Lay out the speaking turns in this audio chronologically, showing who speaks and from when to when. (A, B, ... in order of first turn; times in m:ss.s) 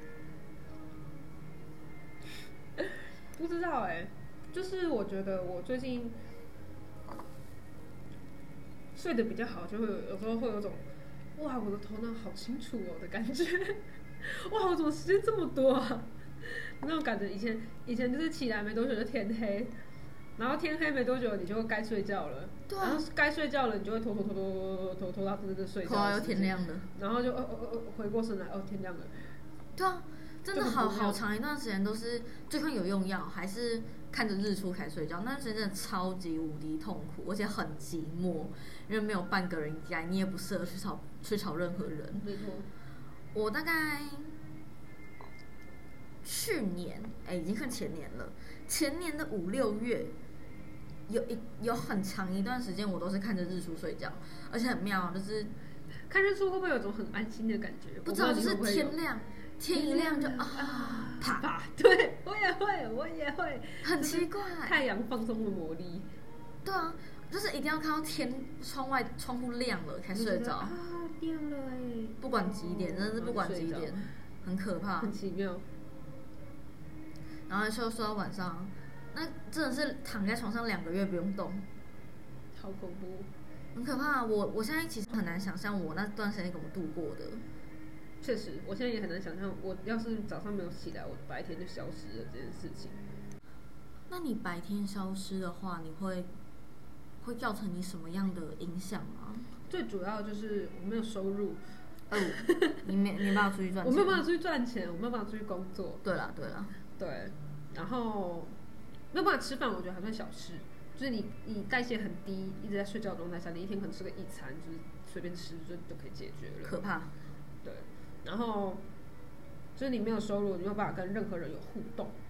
0:03.4-0:06.2 A
0:09.0-0:10.8 A
0:11.4-0:19.7 A
0:20.4-0:29.2 A
0:22.7-0:23.0 B
0:25.8-0:26.9 B
0:29.8-0:42.3 B
0:30.5-0:31.2 A
0:42.2-0:42.7 A
0:43.3-0:44.3 B
0:46.2-0:50.2 B
0:51.1-0:55.5 B
0:56.1-0:59.0 A
0:58.0-1:01.5 B
0:59.7-1:06.1 A
1:03.8-1:04.8 B
1:06.6-1:10.7 B
1:10.1-1:14.1 A
1:12.2-1:15.1 B
1:15.0-1:15.6 A
1:17.5-1:21.7 B
1:22.6-1:23.3 A
1:23.8-1:27.4 B
1:28.2-1:33.0 A
1:34.1-1:36.3 B
1:37.2-1:39.5 B
1:39.7-1:41.6 A
1:42.1-1:44.2 B
1:42.2-1:42.8 A
1:43.8-1:46.0 A
1:46.0-1:46.7 B
1:47.0-1:48.5 A
1:49.1-1:56.8 A
1:56.6-1:57.1 B
1:57.6-1:58.8 A
1:59.8-2:02.2 A